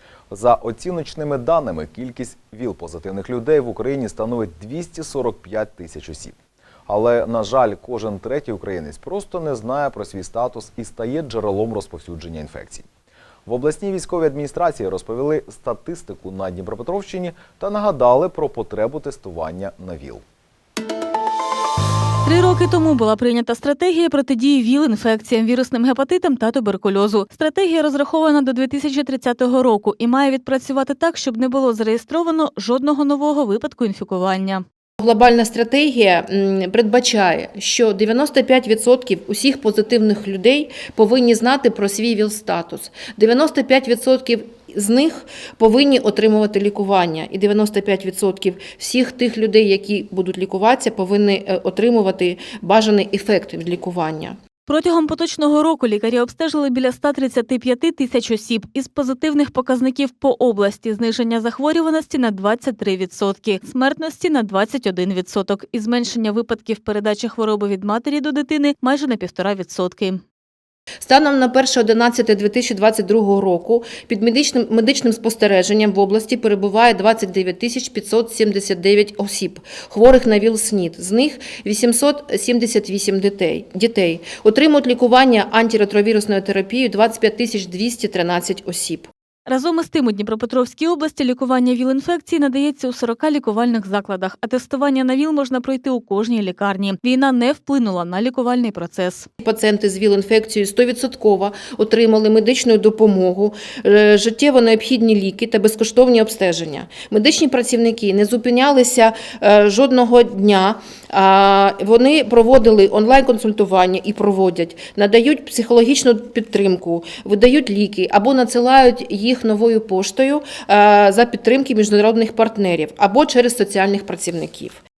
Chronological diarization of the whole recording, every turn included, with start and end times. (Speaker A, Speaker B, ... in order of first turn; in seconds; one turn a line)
Speaker A: 0.3-6.4
Speaker A: 6.9-12.8
Speaker A: 13.5-20.2
Speaker B: 22.2-34.6
Speaker C: 35.0-54.4
Speaker B: 54.7-70.2
Speaker C: 71.0-89.1
Speaker B: 89.5-99.3
Speaker C: 99.4-124.8